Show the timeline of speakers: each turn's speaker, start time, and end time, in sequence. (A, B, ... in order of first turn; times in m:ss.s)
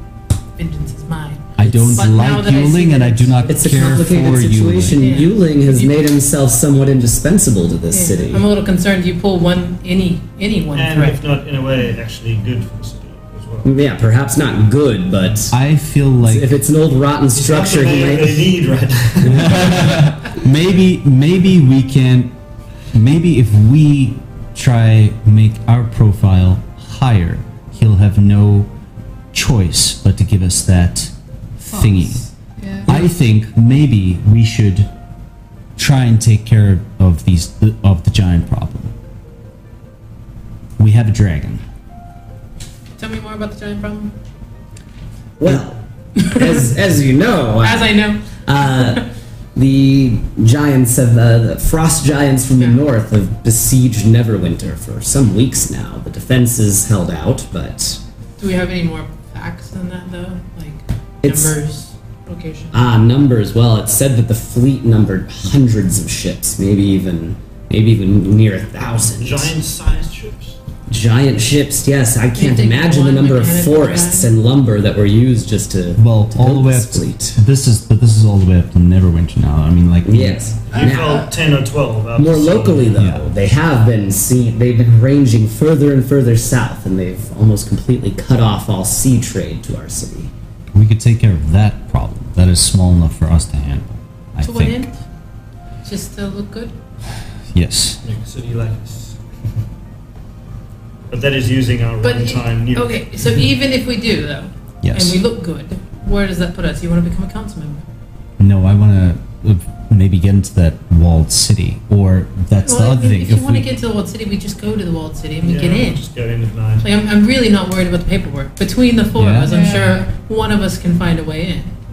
0:00.6-0:04.4 A
0:01.6-0:05.0 B
0:03.5-0:08.4 C
0:05.0-0:05.9 A
0:07.9-0:11.2 A
0:10.8-0:13.7 D
0:13.6-0:15.6 C
0:15.5-0:16.6 B
0:16.2-0:18.5 C
0:17.3-0:20.1 D
0:19.2-0:20.0 C
0:19.3-0:22.3 B
0:22.9-0:28.7 B
0:29.3-0:32.2 B
0:31.7-0:32.9 E
0:32.9-0:34.9 B
0:35.8-0:38.9 B
0:40.8-0:41.6 B
0:43.0-0:44.1 A
0:45.4-0:58.0 C
0:46.2-0:46.7 A
0:47.6-0:49.1 A
0:58.4-1:02.8 A
1:01.2-1:01.6 C
1:02.7-1:09.6 C
1:08.8-1:10.6 D
1:10.9-1:17.4 C
1:12.4-1:14.3 A
1:16.0-1:20.5 B
1:20.0-1:21.3 C
1:20.7-1:23.0 D
1:20.7-1:21.3 E
1:22.2-1:30.3 C
1:23.0-1:23.3 B
1:30.7-1:34.9 B
1:34.4-1:35.0 A
1:35.8-1:36.8 A
1:37.5-1:38.0 B
1:38.0-1:39.2 D
1:41.1-1:43.2 D
1:42.0-1:47.8 A
1:44.8-1:45.2 B
1:48.4-1:53.7 B
1:52.6-1:56.0 A
1:55.4-1:56.9 D
1:56.8-2:01.7 A
1:59.2-1:59.6 B
1:59.5-2:00.1 E